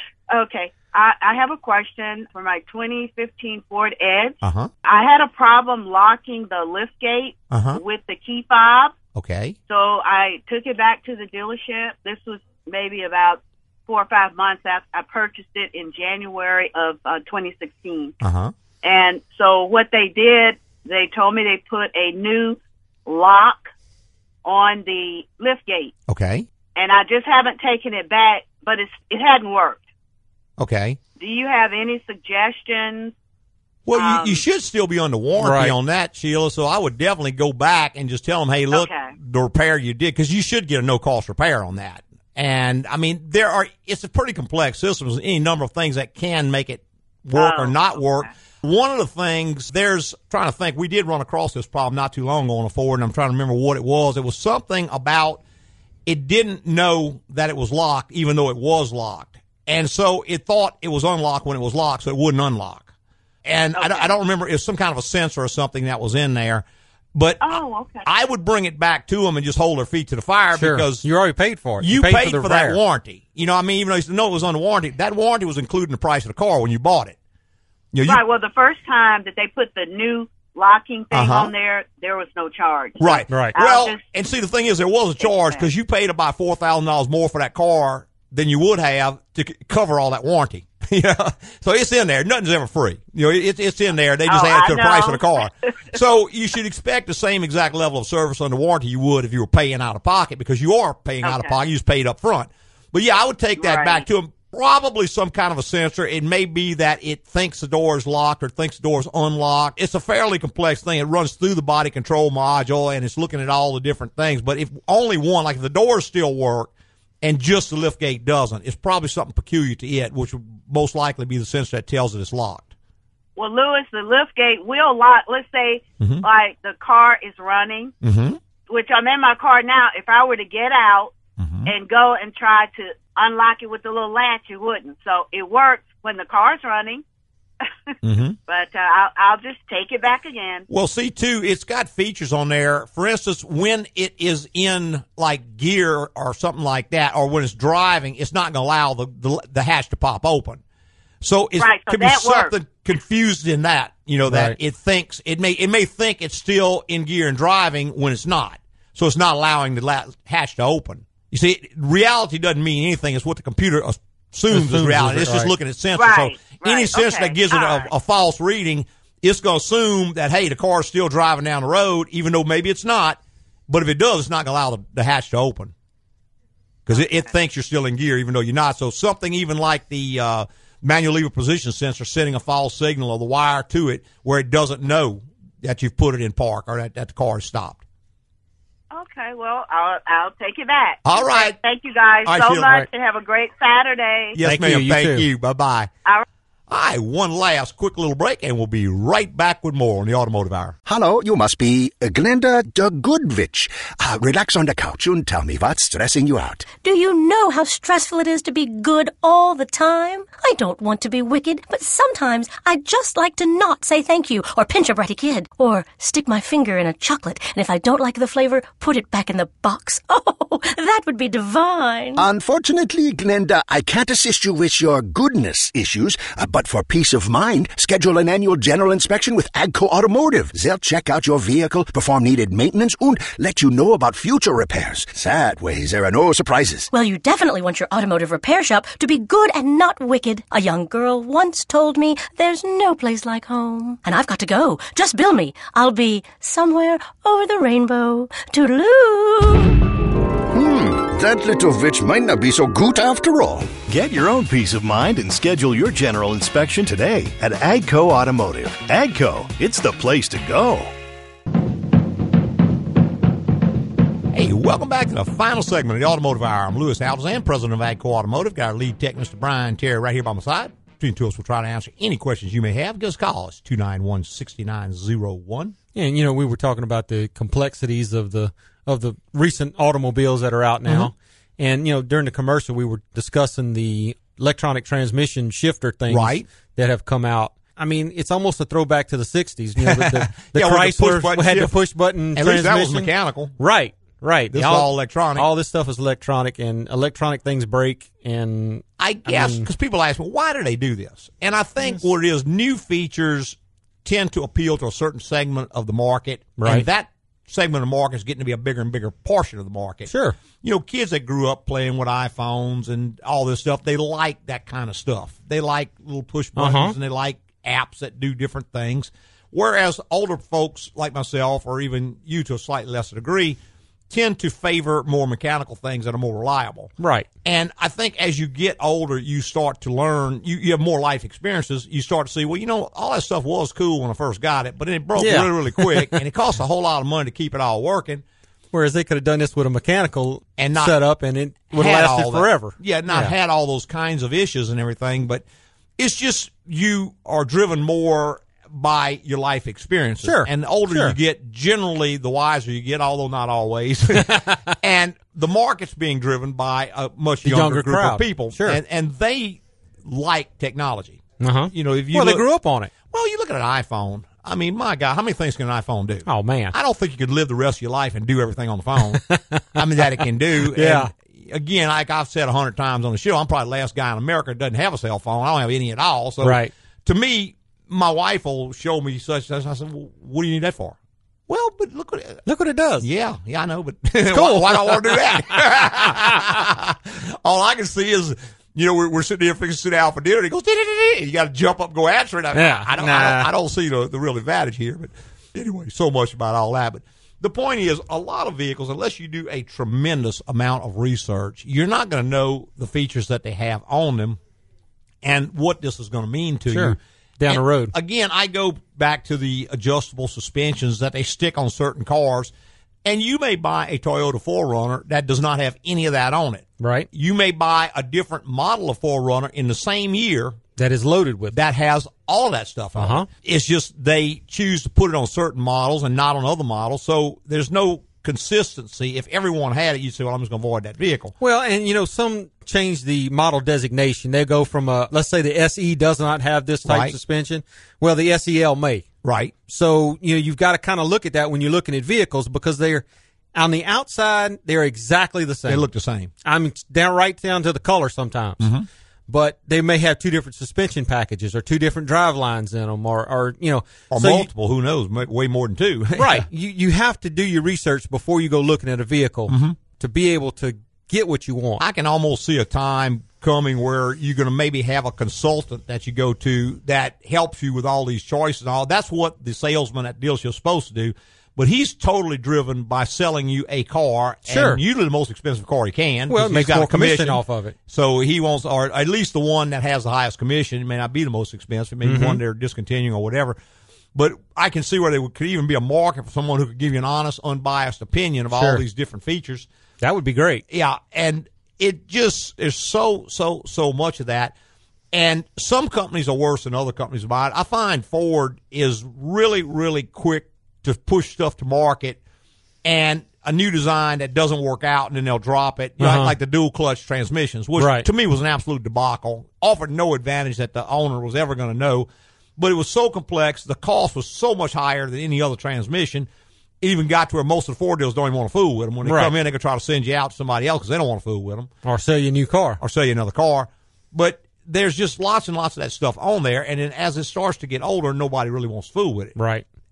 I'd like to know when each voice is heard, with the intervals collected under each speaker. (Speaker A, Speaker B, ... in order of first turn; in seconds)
Speaker A: 0.3-8.9, 9.7-18.1, 18.8-23.7, 24.4-25.9, 26.8-29.8, 31.2-33.1, 34.0-34.4, 38.7-39.1, 47.3-48.3, 63.8-64.1, 67.4-68.1, 78.0-84.0, 85.2-85.7, 94.3-95.5, 101.2-101.6, 103.6-104.1, 123.4-127.9, 128.7-131.1, 131.7-137.0, 138.5-140.7, 151.6-152.5, 165.9-167.9, 176.9-177.2, 188.9-194.4
Speaker B: 4.4-4.7, 7.5-7.8, 9.2-9.6, 18.2-18.5, 26.1-26.5, 30.6-31.0, 33.9-55.4, 56.1-62.9, 63.5-71.1, 71.8-77.2, 77.9-78.2, 81.1-81.5, 83.0-116.7, 117.2-122.7, 128.0-128.4, 131.4-131.7, 138.0-138.4, 140.7-150.6, 151.2-175.7, 176.9-187.8, 191.1-191.6, 192.3-192.9, 194.3-195.9, 196.7-200.8, 264.3-275.8, 280.9-281.1, 286.1-286.5, 289.8-291.8, 292.4-293.5, 294.5-295.5, 299.0-323.6, 324.1-326.9, 327.4-338.2, 340.6-341.0, 341.7-345.4, 346.0-361.2, 361.7-362.5, 363.0-381.0, 381.5-382.4, 383.0-404.4, 405.2-412.5, 413.1-420.6, 421.5-431.3, 436.9-437.2, 439.2-439.5, 445.7-446.3, 448.6-448.9, 454.1-456.5, 459.5-459.8, 461.8-483.6, 484.1-489.7, 490.7-494.5, 495.1-502.2, 502.8-516.3, 516.8-521.7, 522.8-529.4
Speaker C: 35.4-35.8, 70.6-72.8, 83.3-83.5, 154.3-154.6, 164.5-165.5, 194.4-195.3, 275.9-299.7, 306.6-306.9, 310.1-310.4, 316.6-317.0, 327.0-327.3, 335.2-336.2, 338.7-343.3, 350.2-351.1, 354.2-354.7, 357.4-358.8, 361.4-362.9, 366.3-366.7, 369.2-369.8, 370.6-371.1, 376.4-376.7, 382.5-383.1, 384.2-386.5, 392.5-393.5, 406.7-407.9, 416.8-417.1, 420.8-421.6, 423.0-423.3, 431.4-439.1, 439.7-445.9, 446.4-448.7, 449.3-454.5, 456.2-461.8, 474.5-474.8, 476.3-477.8, 482.0-482.4, 488.5-488.8, 490.0-490.6, 506.0-506.4, 507.8-508.1, 519.0-519.3, 521.8-522.8, 529.4-529.6
Speaker D: 200.9-206.7, 222.2-236.9, 250.5-253.8
Speaker E: 206.8-222.2, 236.9-249.8
Speaker F: 253.9-260.9